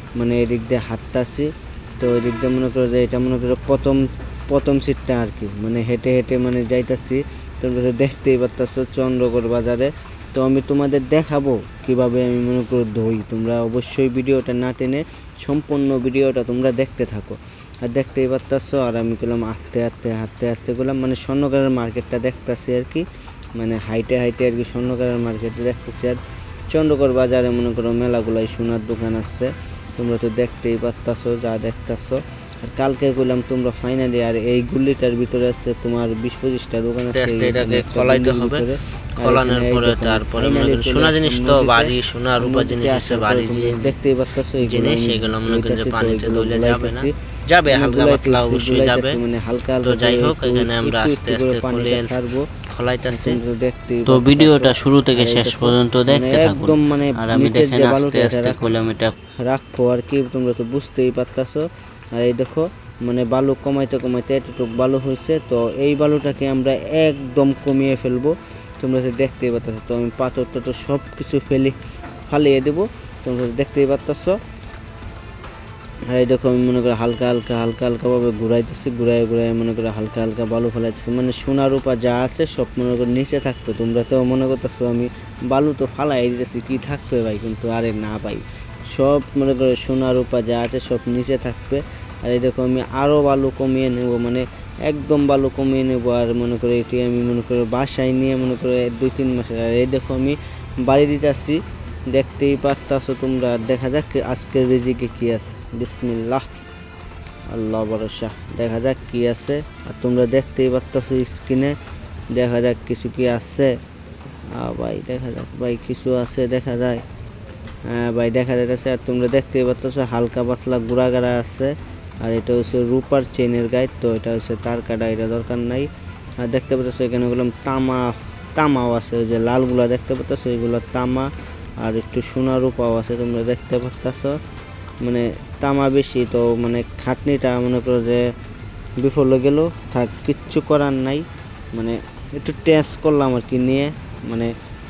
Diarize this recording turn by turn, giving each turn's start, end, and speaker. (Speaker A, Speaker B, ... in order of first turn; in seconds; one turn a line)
Speaker A: 0.2-47.1
Speaker B: 37.0-44.0
Speaker B: 44.6-49.2
Speaker A: 47.7-52.5
Speaker B: 49.8-52.2
Speaker B: 52.7-53.4
Speaker A: 53.1-58.7
Speaker B: 54.1-59.2
Speaker A: 59.4-71.8
Speaker A: 72.3-74.4
Speaker A: 76.1-106.5
Speaker A: 107.5-111.8
Speaker A: 112.3-113.8
Speaker A: 114.5-117.0
Speaker A: 117.9-125.9
Speaker A: 126.4-134.4
Speaker A: 135.0-138.3
Speaker A: 139.0-144.5